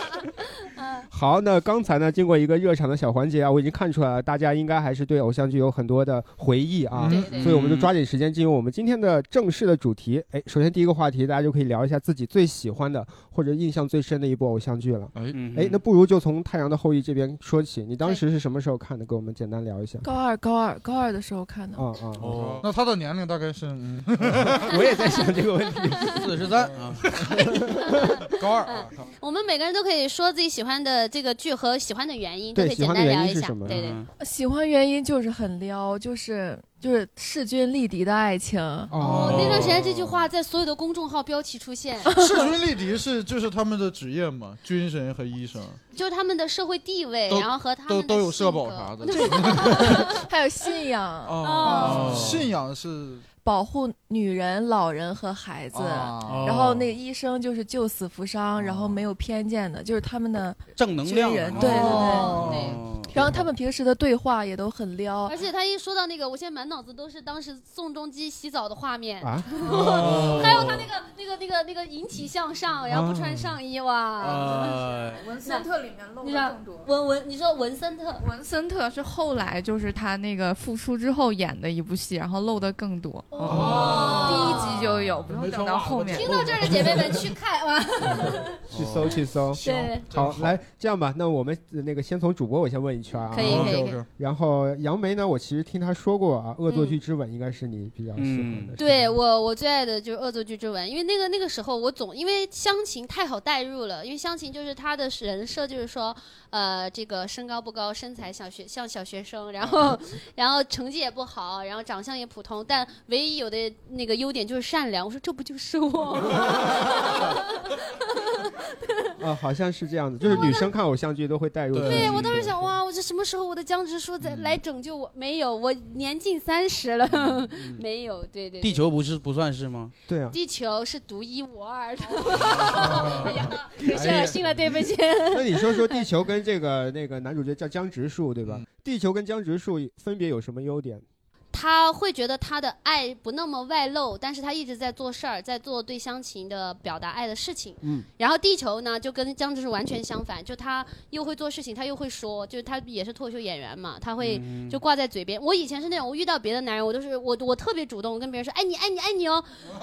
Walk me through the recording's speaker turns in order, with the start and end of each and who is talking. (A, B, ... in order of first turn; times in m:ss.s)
0:00.7-0:01.0 A
0:01.1-0:20.0 B
0:07.0-0:07.3 C
0:07.1-0:07.5 A
0:07.3-0:07.9 D
0:15.1-0:15.4 C
0:15.3-0:15.8 D
0:20.0-0:21.8 E
0:21.8-0:22.4 B
0:22.2-0:22.7 D
0:22.2-0:24.8 C
0:24.3-0:26.3 B
0:26.1-0:27.1 D
0:26.6-0:27.6 C
0:27.1-0:28.1 B
0:28.3-0:29.1 C
0:28.6-0:34.0 A
0:32.5-0:33.8 B
0:33.6-0:34.1 D
0:34.2-0:38.9 E
0:38.9-0:39.8 B
0:39.0-0:40.2 D
0:39.0-0:42.1 A
0:42.0-0:42.5 E
0:42.2-0:45.8 C
0:45.9-0:50.3 A
0:47.3-0:50.2 C
0:49.1-0:52.1 E
0:51.2-0:52.5 D
0:51.4-0:52.2 A
0:51.5-0:53.2 C
0:53.4-1:02.4 E
0:55.7-0:56.5 C
0:56.2-0:56.9 D
0:58.6-0:59.0 D
1:00.8-1:03.4 D
1:01.5-1:02.8 A
1:02.1-1:02.7 C
1:03.1-1:05.4 E
1:05.2-1:14.8 A
1:09.2-1:10.5 B
1:09.6-1:10.9 D
1:12.9-1:13.6 B
1:14.2-1:15.3 D
1:15.2-1:16.9 E
1:16.2-1:18.2 A
1:18.2-1:23.3 F
1:23.3-1:24.8 A
1:23.4-1:24.0 B
1:23.5-1:24.2 C
1:23.6-1:24.2 D
1:24.1-1:26.3 E
1:24.2-1:25.4 F
1:25.2-1:27.2 C
1:26.1-1:28.6 A
1:28.1-1:28.4 C
1:28.7-1:29.2 D
1:28.7-1:38.9 B
1:29.6-1:30.5 C
1:29.6-1:30.0 A
1:33.3-1:34.0 A
1:33.3-1:34.0 C
1:36.7-1:37.0 A
1:38.2-1:38.8 D
1:38.8-1:59.1 A
1:59.2-2:02.7 B
2:00.2-2:00.7 A
2:01.7-2:02.4 D
2:01.8-2:08.8 A
2:04.3-2:04.6 D
2:07.1-2:07.8 D
2:08.6-2:09.9 D
2:10.1-2:10.4 B
2:10.3-2:16.0 A
2:13.1-2:13.4 D
2:13.8-2:14.3 B
2:14.0-2:14.4 C
2:15.3-2:21.0 B
2:21.5-2:39.5 A
2:27.8-2:28.1 B
2:34.2-2:34.8 D